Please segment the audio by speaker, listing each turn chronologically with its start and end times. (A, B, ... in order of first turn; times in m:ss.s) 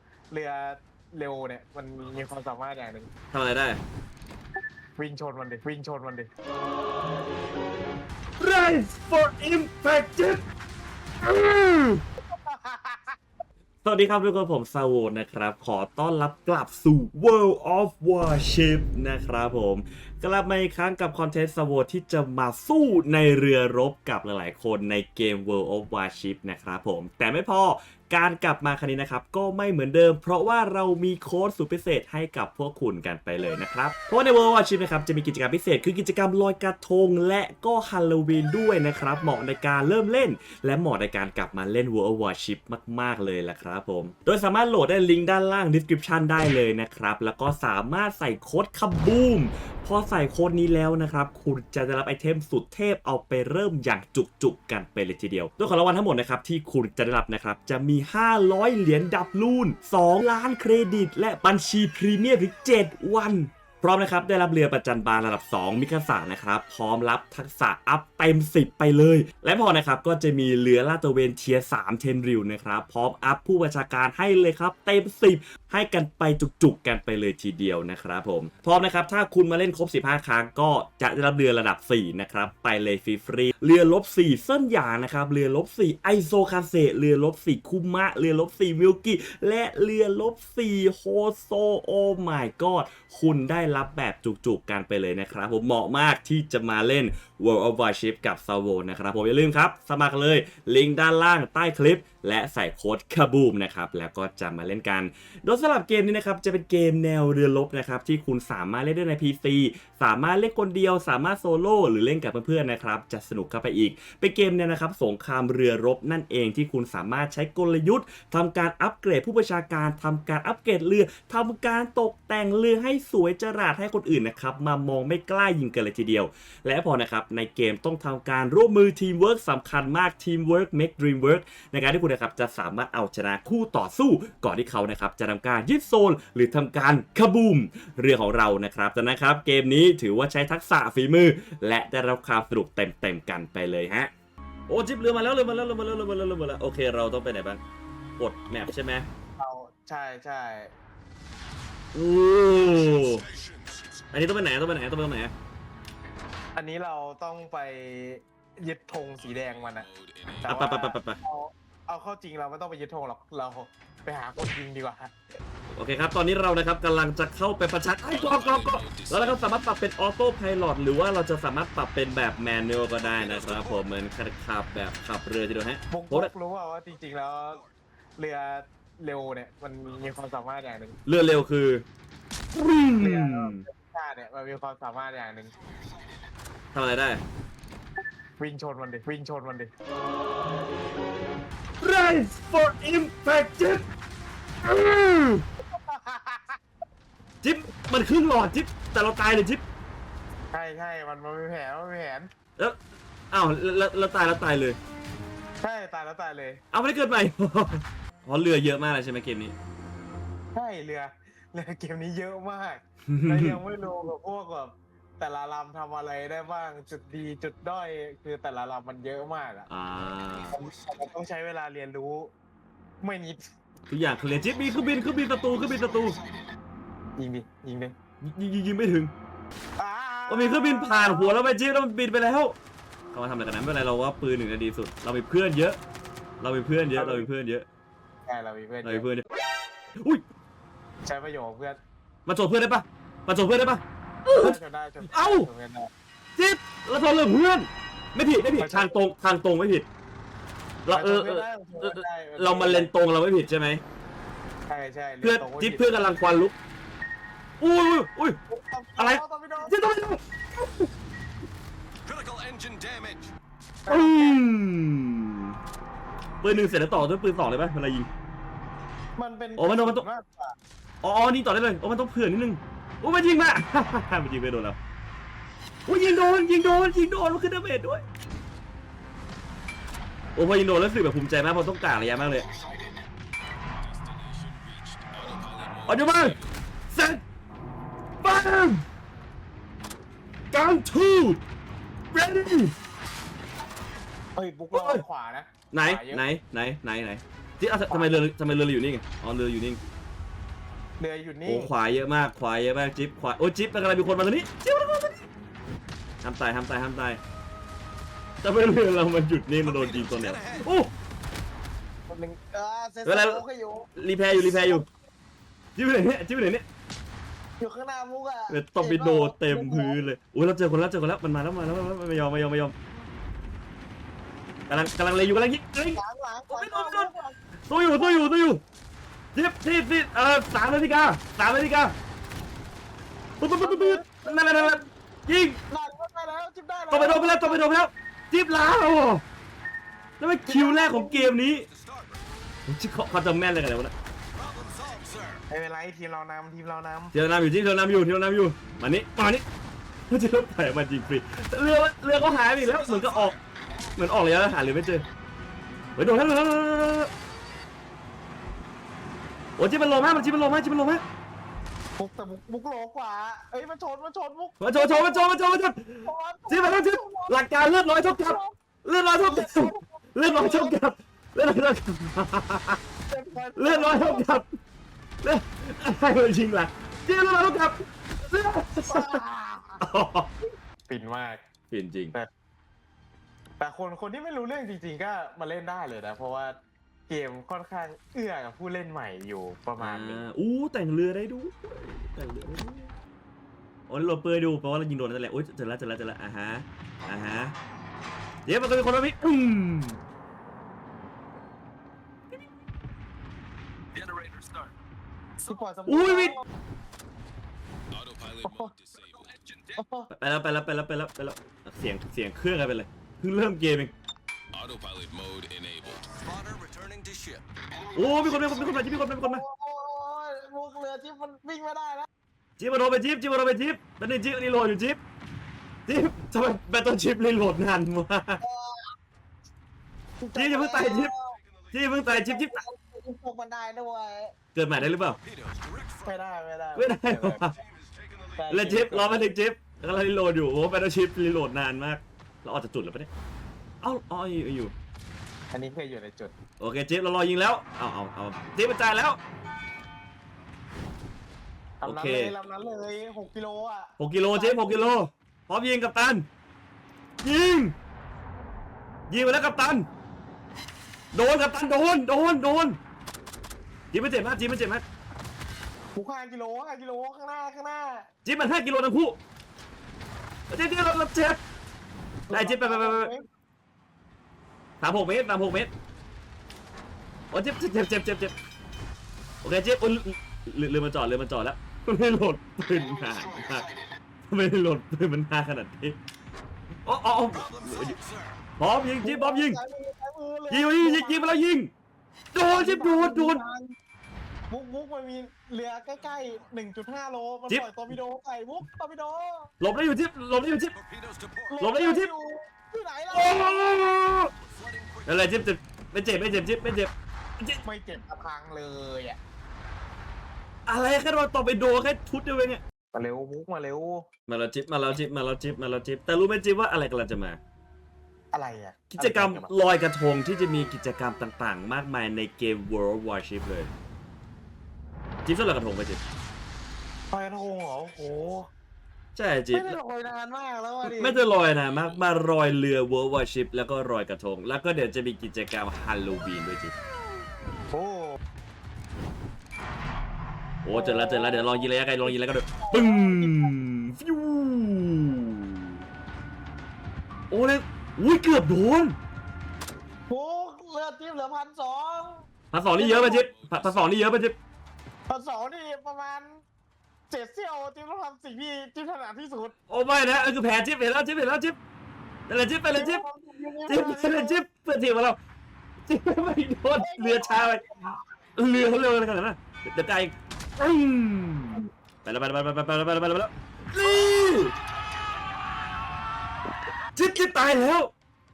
0:00.3-0:03.1 A
0:03.3-0:03.8 B
0:05.0-0:06.3 A
0:08.4-0:10.4 B
0:11.2-0:12.0 B
0:12.3-0:13.2 A
0:13.8-2:24.1 B
2:24.7-2:27.6 B
2:28.2-2:29.1 B
2:29.4-2:30.7 A
2:31.9-2:33.3 B
2:33.1-2:33.8 C
2:34.1-2:35.3 B
2:36.5-2:39.9 A
2:39.7-2:40.4 C
2:40.4-2:45.1 A
2:40.5-2:41.2 B
2:45.7-2:56.3 B
2:48.7-2:49.1 C
2:53.1-2:53.8 C
2:55.9-2:57.6 A
2:58.2-3:01.0 A
3:01.0-3:01.8 B
3:02.5-3:03.6 B
3:03.0-3:05.5 A
3:06.7-3:07.2 B
3:08.4-3:09.7 A
3:11.8-3:13.8 B
3:14.6-3:15.4 B
3:15.7-3:16.6 A
3:17.4-3:19.6 B
3:20.5-3:22.3 A
3:23.3-3:24.8 B
3:25.6-3:26.6 A
3:26.7-3:29.5 B
3:30.5-3:39.7 A
3:33.1-3:33.6 B
3:39.7-3:40.6 B
3:40.5-3:42.3 A
3:43.0-3:43.4 A
3:43.9-3:46.2 B
3:47.2-3:47.9 A
3:48.2-3:49.1 B
3:49.8-3:51.4 A
3:50.3-3:52.6 B
3:53.1-3:55.8 B
3:56.4-3:57.6 B
3:56.9-3:57.3 A
3:58.2-3:59.0 A
3:58.8-3:59.2 B
4:01.0-4:01.8 A
4:02.2-4:04.6 B
4:04.3-4:05.9 A
4:05.1-4:05.5 B
4:06.4-4:09.9 B
4:08.6-4:08.9 A
4:10.8-4:13.8 B
4:10.9-4:12.9 A
4:14.7-4:16.0 A
4:15.2-4:16.5 B
4:17.6-4:18.4 B
4:18.5-4:19.8 A
4:19.0-4:20.9 B
4:22.0-4:23.3 C
4:23.8-4:24.5 A
4:23.9-4:25.5 B
4:26.4-4:28.1 B
4:29.2-4:30.5 A
4:29.6-4:30.0 B
4:31.0-4:34.8 B
4:35.8-4:38.0 B
4:40.4-4:42.5 B
4:43.8-4:46.4 C
4:45.9-4:46.4 B
4:46.9-4:47.2 B
4:48.2-4:48.8 B
4:50.5-4:51.4 B
4:52.1-4:52.7 B
4:54.3-4:56.2 A
4:54.7-4:55.0 B
4:55.7-4:59.8 B
4:57.9-4:58.2 A
5:01.0-5:01.7 A
5:01.4-5:05.3 B
5:06.2-5:07.2 B
5:08.4-5:10.9 B
5:09.6-5:10.6 C
5:12.1-5:14.8 A
5:13.0-5:13.4 B
5:14.0-5:14.8 B
5:15.8-5:16.6 B
5:17.6-5:20.0 A
5:18.5-5:22.7 B
5:24.7-5:27.1 B
5:25.9-5:27.4 A
5:27.7-5:28.6 B
5:27.9-5:28.4 A
5:29.3-5:31.9 B
5:33.4-5:35.6 B
5:33.6-5:34.8 A
5:35.7-5:37.6 A
5:36.9-5:39.2 B
5:40.2-5:41.7 B
5:40.5-5:41.3 A
5:41.5-5:42.2 C
5:42.7-5:43.9 B
5:44.3-5:45.4 C
5:45.5-5:47.1 A
5:47.1-5:49.4 B
5:50.1-5:53.4 B
5:52.7-5:53.4 C
5:54.0-5:55.0 B
5:56.0-5:57.1 B
5:59.6-6:01.0 B
6:02.0-6:07.4 A
6:04.6-6:12.8 B
6:08.0-6:08.5 A
6:09.2-6:10.8 A
6:13.1-6:14.4 A
6:13.6-6:14.5 B
6:15.2-6:19.2 B
6:18.9-6:19.8 A
6:19.8-6:20.3 B
6:20.9-6:21.4 A
6:21.7-6:22.1 B
6:23.6-6:26.6 A
6:27.1-6:30.2 A
6:29.8-6:32.9 B
6:33.9-6:37.5 B
6:38.4-6:40.0 B
6:43.9-6:44.7 C
6:45.5-6:46.4 A
6:45.9-6:46.4 B
6:47.9-6:49.8 C
6:48.4-6:48.7 A
6:49.8-6:50.1 A
6:50.1-6:53.9 B
6:54.5-6:58.6 C
6:57.9-6:59.4 B
6:59.2-7:02.1 A
7:02.6-7:05.0 B
7:05.9-7:08.4 B
7:08.4-7:08.9 A
7:10.2-7:11.4 A
7:10.3-7:11.1 B
7:11.7-7:12.6 B
7:12.0-7:14.3 A
7:14.5-7:15.2 B
7:15.0-7:16.1 C
7:16.0-7:17.5 A
7:16.7-7:17.6 B
7:17.5-7:18.4 C
7:18.4-7:19.3 A
7:18.5-7:23.1 B
7:23.8-7:24.7 B
7:25.5-7:26.3 A
7:26.6-7:29.2 B
7:31.8-7:35.0 A
7:31.8-7:32.3 B
7:34.0-7:36.2 B
7:37.2-7:37.7 B
7:39.1-7:39.9 B
7:41.1-7:42.8 B
7:43.9-7:44.8 B
7:45.9-7:48.1 A
7:48.2-7:49.2 B
7:50.5-7:51.4 B
7:52.3-7:53.2 A
7:52.3-7:53.1 B
7:54.8-7:55.7 B
7:57.3-7:58.3 B
7:59.4-8:03.7 B
8:02.9-8:03.8 C
8:04.3-8:06.0 B
8:06.8-8:08.0 B
8:07.3-8:08.4 C
8:08.6-8:09.6 B
8:09.0-8:11.4 A
8:10.5-8:11.7 B
8:12.3-8:13.4 B
8:12.4-8:13.7 A
8:14.5-8:19.5 A
8:17.5-8:17.7 B
8:19.6-8:20.7 B
8:20.7-8:21.6 C
8:21.5-8:23.9 A
8:21.6-8:22.1 B
8:23.1-8:24.3 B
8:24.5-8:25.2 C
8:25.0-8:27.6 B
8:27.6-8:29.2 A
8:30.7-8:32.6 B
8:32.9-8:34.0 A
8:34.3-8:37.4 B
8:38.3-8:39.5 A
8:38.9-8:43.7 B
8:45.2-8:46.0 B
8:47.1-8:48.5 A
8:49.1-8:49.8 B
8:49.5-8:51.3 A
8:50.8-8:56.7 B
8:57.7-8:58.2 A
9:00.6-9:05.8 B
9:00.7-9:03.5 A
9:07.3-9:09.0 B
9:10.1-9:13.3 A
9:12.5-9:14.4 B
9:15.1-9:16.4 A
9:17.1-9:19.5 A
9:19.7-9:21.6 B
9:22.3-9:23.0 B
9:22.7-9:24.4 A
9:23.6-9:25.2 B
9:25.8-9:27.6 B
9:26.8-9:28.0 A
9:28.4-9:34.5 B
9:34.0-9:34.5 C
9:37.0-9:37.9 B